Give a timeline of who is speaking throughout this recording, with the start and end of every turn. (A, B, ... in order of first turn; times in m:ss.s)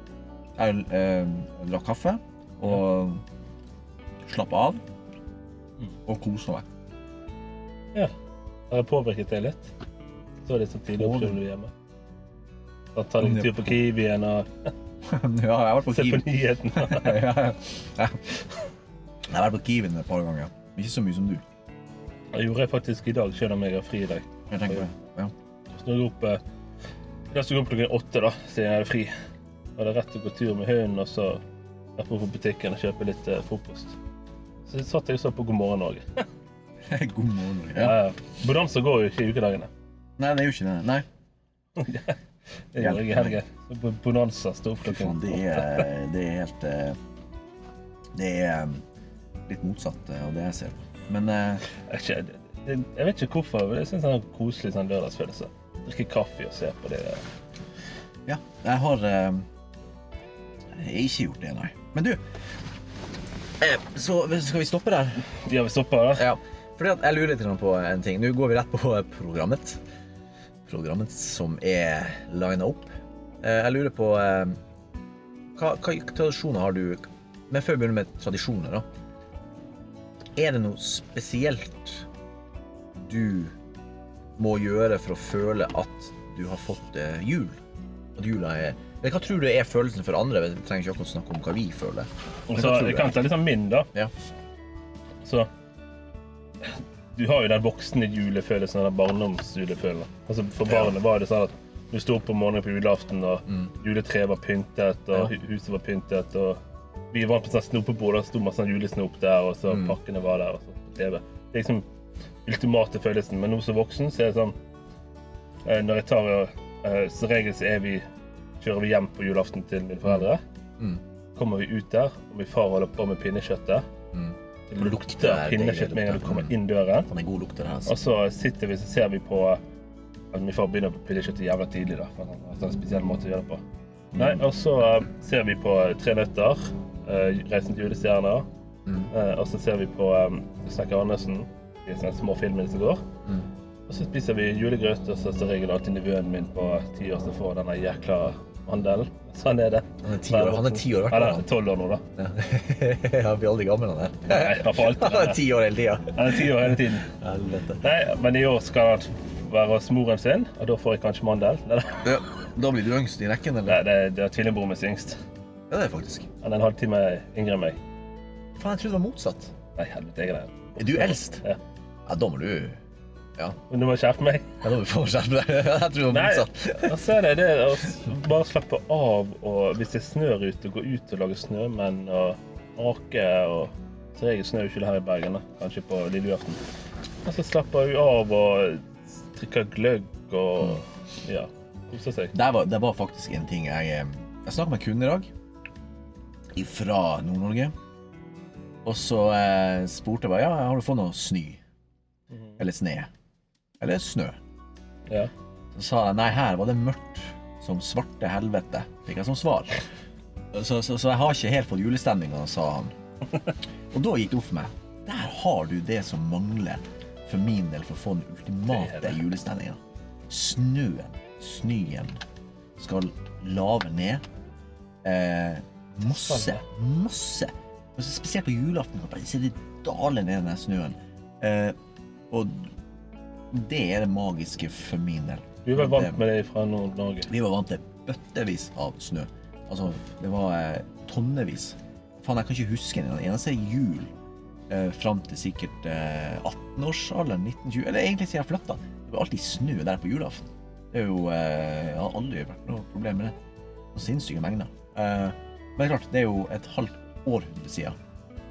0:00.6-0:03.2 A
0:04.3-0:04.8 A
0:06.1-0:06.7 A
0:08.7-0:09.7 B
0:10.4-0:11.7 B
0:11.0-0:11.4 A
0:13.0-0:14.7 B
0:13.2-0:13.8 A
0:15.0-0:18.3 A
0:15.9-0:17.2 B
0:19.3-0:21.4 A
0:22.3-0:24.8 B
0:24.5-0:25.3 A
0:25.7-0:26.4 B
0:27.3-0:29.1 B
0:29.8-0:31.4 B
0:32.0-0:34.0 B
0:34.6-0:36.2 B
0:36.8-0:38.0 A
0:37.8-0:39.7 B
0:40.2-0:41.0 A
0:41.8-0:42.2 B
0:42.7-0:45.9 B
0:42.8-0:43.4 A
0:44.8-0:47.0 A
0:48.1-0:48.8 A
0:49.5-0:51.6 A
0:51.9-0:57.2 B
0:58.2-0:59.4 A
1:00.7-1:02.2 A
1:03.6-1:05.2 A
1:05.3-1:06.3 B
1:06.1-1:09.8 A
1:10.6-1:14.6 A
1:15.5-1:18.8 A
1:20.4-1:22.1 A
1:23.0-1:23.5 A
1:24.4-1:27.6 A
1:28.2-1:33.2 A
1:32.5-1:33.9 B
1:36.6-1:46.6 B
1:40.7-1:40.9 A
1:47.1-1:51.8 B
1:49.7-1:50.0 A
1:52.4-1:54.5 B
1:55.6-1:58.0 B
1:58.6-2:00.4 B
2:01.3-2:03.8 B
2:04.1-2:06.5 A
2:04.7-2:07.1 B
2:07.1-2:07.9 A
2:07.8-2:09.6 B
2:10.3-2:13.6 B
2:14.1-2:14.4 A
2:14.1-2:18.5 B
2:18.8-2:19.1 A
2:19.1-2:23.1 B
2:23.9-2:32.0 B
2:30.0-2:31.4 A
2:32.2-2:37.8 A
2:34.3-2:35.4 B
2:36.1-2:37.1 B
2:37.8-2:42.0 B
2:42.0-2:43.8 A
2:43.7-2:45.2 B
2:45.7-2:46.3 A
2:46.4-2:47.8 B
2:48.6-2:49.5 A
2:49.8-2:51.6 B
2:50.8-2:51.4 A
2:52.0-2:52.8 A
2:53.7-2:54.6 B
2:54.6-2:57.0 A
2:56.1-3:06.6 B
3:07.2-3:12.3 B
3:12.3-3:15.3 A
3:16.6-3:17.7 A
3:18.8-3:21.6 A
3:22.3-3:22.6 B
3:22.6-3:23.1 A
3:23.8-3:24.4 A
3:25.7-3:29.9 A
3:30.5-3:32.9 A
3:33.9-3:42.2 A
3:38.7-3:39.2 B
3:42.8-3:44.2 A
3:45.0-3:51.7 A
3:46.2-3:46.6 B
3:52.3-3:52.7 A
3:53.5-3:56.2 A
3:55.6-3:57.3 B
3:57.3-4:04.1 A
4:04.7-4:13.4 A
4:13.9-4:18.0 A